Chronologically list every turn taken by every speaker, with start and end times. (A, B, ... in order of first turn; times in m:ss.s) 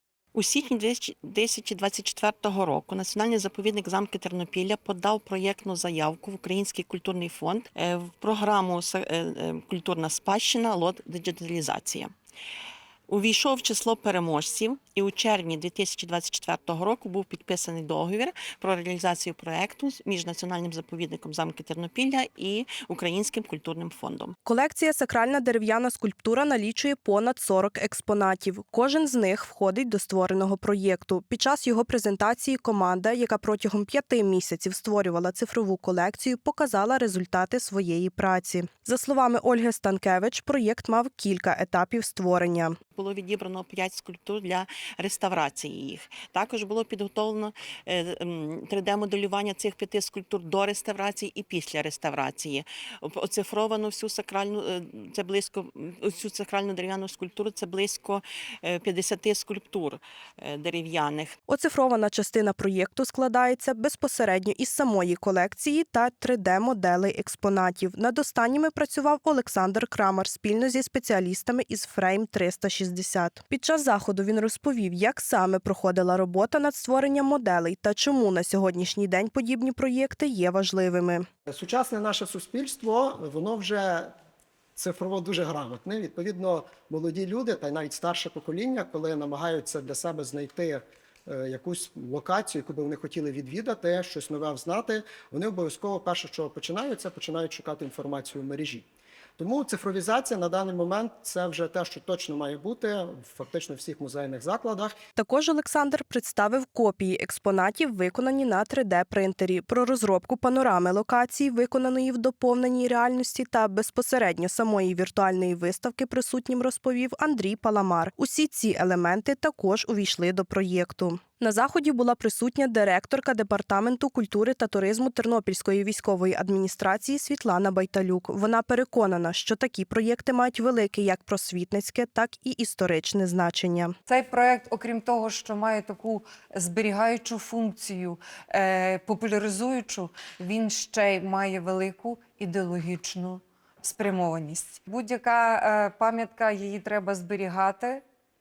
0:00.3-0:12.1 A
0:13.1-0:24.4 A
0:24.5-0:42.8 B
0:43.0-1:01.4 A
1:01.5-1:21.3 B
1:21.5-1:24.1 C
1:24.8-1:38.9 C
1:39.4-1:45.0 C
1:45.2-2:14.0 B
2:14.1-2:28.0 D